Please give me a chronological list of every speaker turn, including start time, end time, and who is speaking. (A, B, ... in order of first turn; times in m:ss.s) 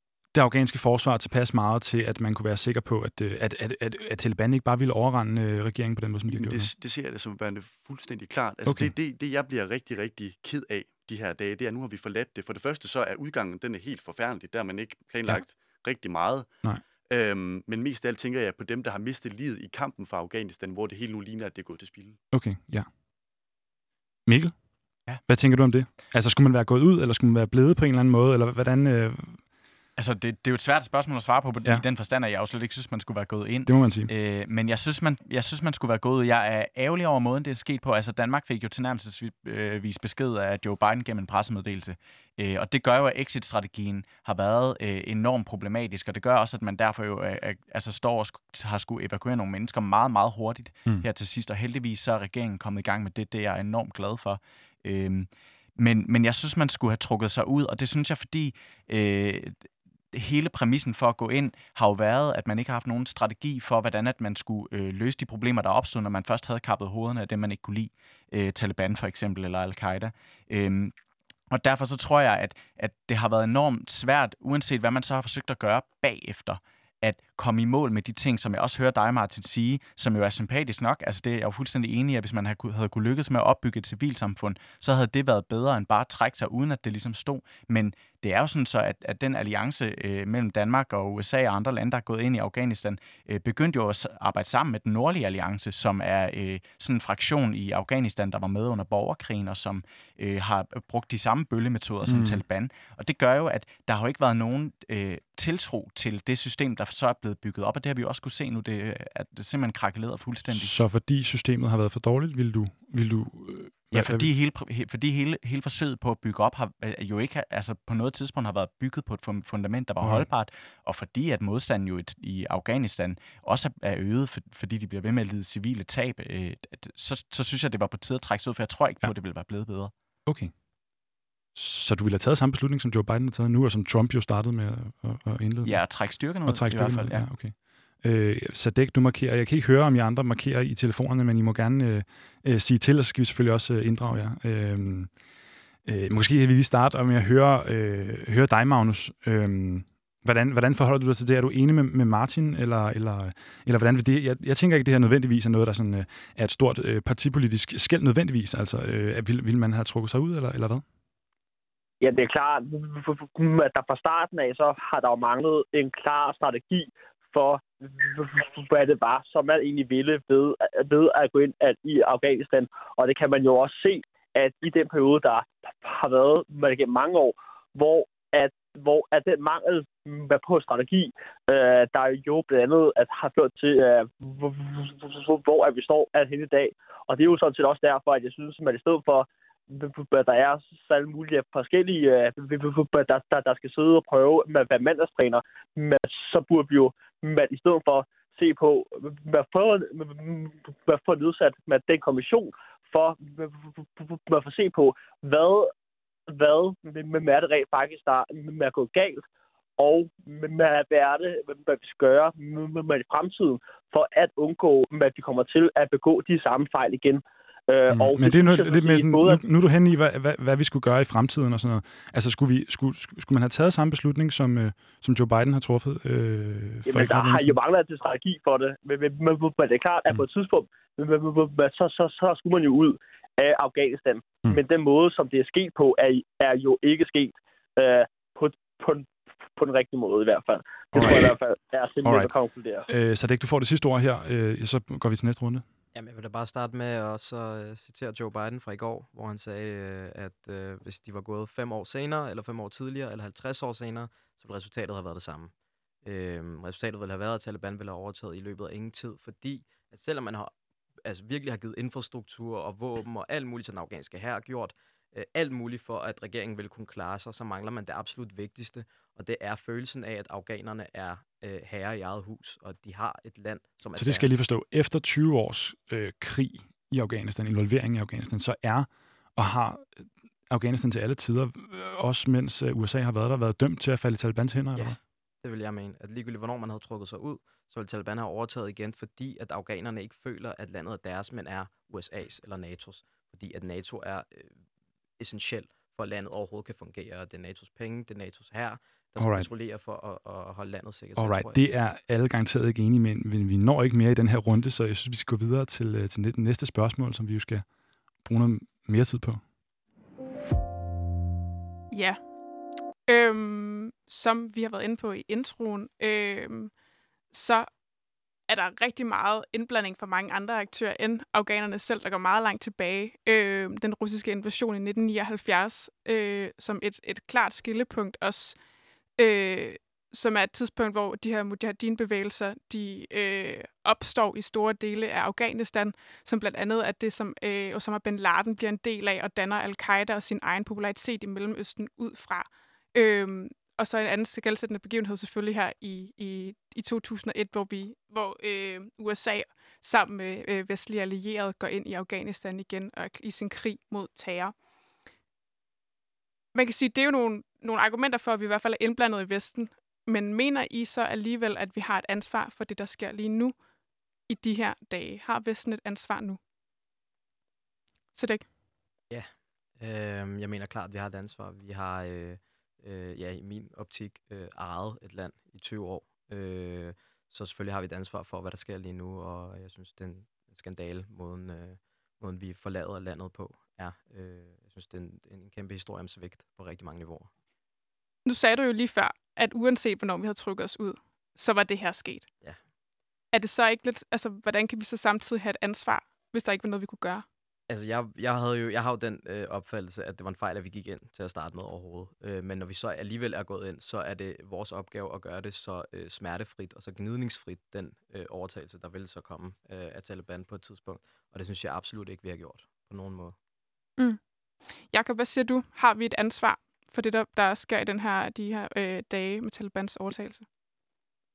0:00.3-0:06.7 A
0:06.3-0:16.5 B
0:08.6-0:08.9 A
0:17.1-0:22.2 B
0:22.3-0:22.9 A
0:24.3-0:24.5 A
0:25.1-0:29.4 A
0:30.0-1:10.9 C
0:33.7-0:34.1 A
1:11.5-1:50.7 C
1:42.1-1:42.4 A
1:50.5-1:54.3 A
1:53.9-2:09.9 C
2:00.0-2:00.3 A
2:10.3-2:10.5 A
2:11.6-2:15.8 A
2:15.6-2:17.3 C
2:16.4-2:25.1 A
2:25.8-2:40.8 A
2:42.0-3:25.7 D
3:26.3-3:29.2 D
3:29.8-3:39.4 D
3:37.9-3:47.6 A
3:46.9-4:02.9 D
4:00.9-4:01.3 A
4:02.0-4:02.3 A
4:02.9-4:05.6 A
4:05.9-4:15.5 E
4:16.0-4:20.5 E
4:21.0-4:34.3 E
4:34.0-4:45.0 A
4:44.8-4:54.6 E
4:55.2-5:01.6 E
4:59.2-4:59.5 A
5:01.2-5:07.6 A
5:08.2-5:09.4 A
5:11.9-5:12.2 F
5:13.1-5:16.7 F
5:17.3-5:17.7 F
5:18.5-5:28.6 F
5:29.2-5:54.5 F
5:56.5-6:03.6 F
6:04.3-6:06.4 F
6:08.1-6:08.4 F
6:09.1-6:27.3 E
6:28.2-6:32.3 F
6:33.3-6:37.2 F
6:37.7-6:53.4 E
6:54.9-7:00.4 F